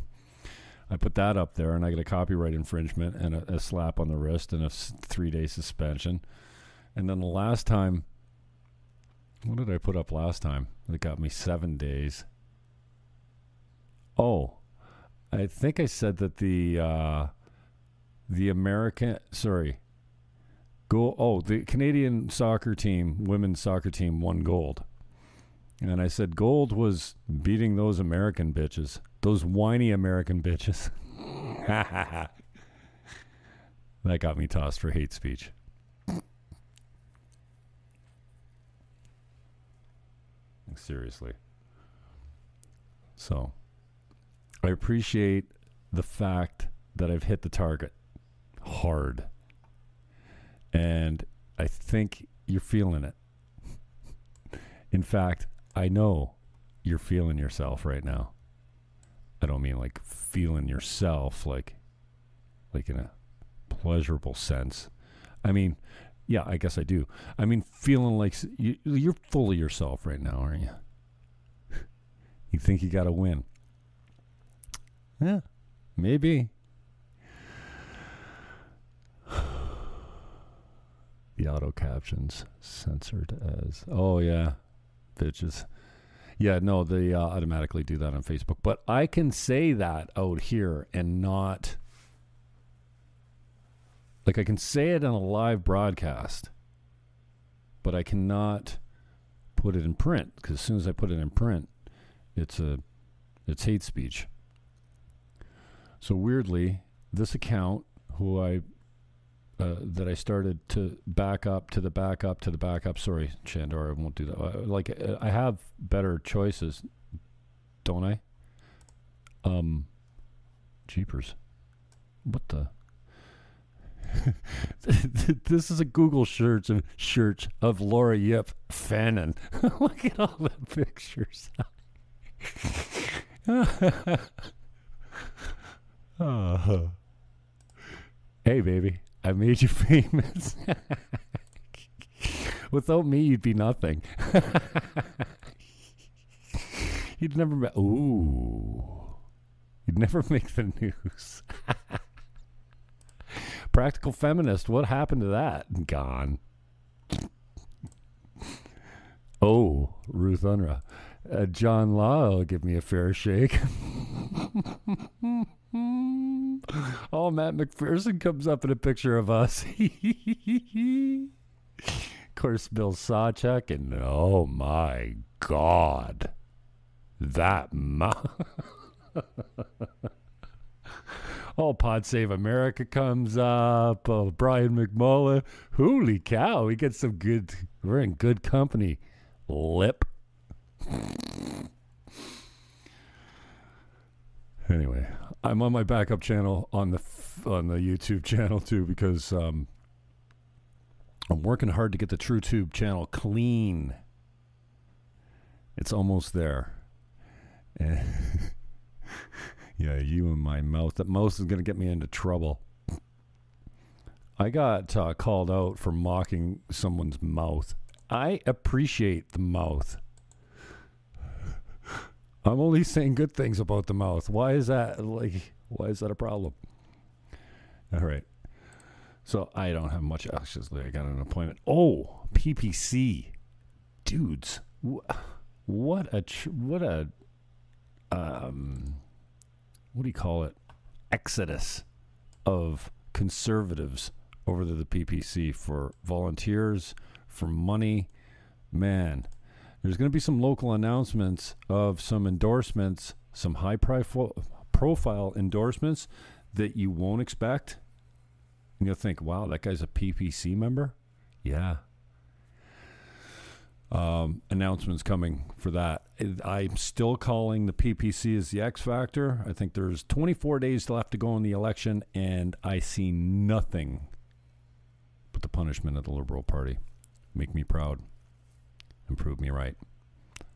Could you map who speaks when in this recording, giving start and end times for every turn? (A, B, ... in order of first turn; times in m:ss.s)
0:00.9-0:06.2 A
0:07.0-0:08.1 A
0:09.4-0:12.3 A
0:14.2-0:14.6 A
0:15.3-0:17.3 A
0:18.3-0:19.8 A
0:20.9-0:24.9 A
0:25.8-0:32.3 A
0:34.0-0:35.5 A
0:40.7-0:41.4 A
0:43.2-0:43.5 A
0:44.6-0:48.0 A
0:48.6-0:49.3 A
0:50.7-0:53.2 A
0:54.9-0:58.3 A
0:59.4-1:01.8 A
1:02.7-1:03.1 A
1:03.7-1:04.9 A
1:05.4-1:10.8 A
1:12.5-1:13.5 A
1:15.2-1:15.4 A
1:16.0-1:16.5 A
1:19.3-1:19.9 A
1:21.4-1:24.6 A
1:25.2-1:25.7 A
1:26.4-1:31.8 A
1:34.2-1:36.5 A
1:37.8-1:38.8 A
1:39.6-1:41.7 A
1:42.4-1:42.8 A
1:43.5-1:44.3 A
1:46.0-1:48.6 A
1:49.6-1:56.9 A
1:57.8-1:58.2 A
1:59.4-1:59.9 A
2:00.9-2:01.4 A
2:02.2-2:02.7 A
2:04.0-2:11.7 A
2:12.4-2:14.4 A
2:16.2-2:17.0 A
2:18.4-2:21.2 A
2:22.2-2:25.3 A
2:26.5-2:29.2 A
2:29.9-2:32.0 A
2:33.3-2:36.4 A
2:39.4-2:56.3 A
2:57.2-2:59.9 A
3:01.0-3:10.1 A
3:10.8-3:11.6 A
3:14.7-3:19.7 A
3:21.3-3:24.0 A
3:25.8-3:26.8 A
3:27.8-3:28.6 A
3:29.1-3:32.6 A
3:34.4-3:40.0 A
3:41.9-3:46.6 A
3:47.9-3:48.3 A
3:49.2-3:53.3 A
3:54.0-3:57.1 A
3:58.1-3:59.0 A
3:59.9-4:00.6 A
4:01.1-4:01.8 A
4:02.4-4:08.1 A
4:08.7-4:09.3 A
4:09.8-4:17.8 A
4:18.8-4:21.8 A
4:23.9-4:34.1 A
4:35.3-4:36.8 A
4:37.3-4:38.0 A
4:39.1-4:39.8 A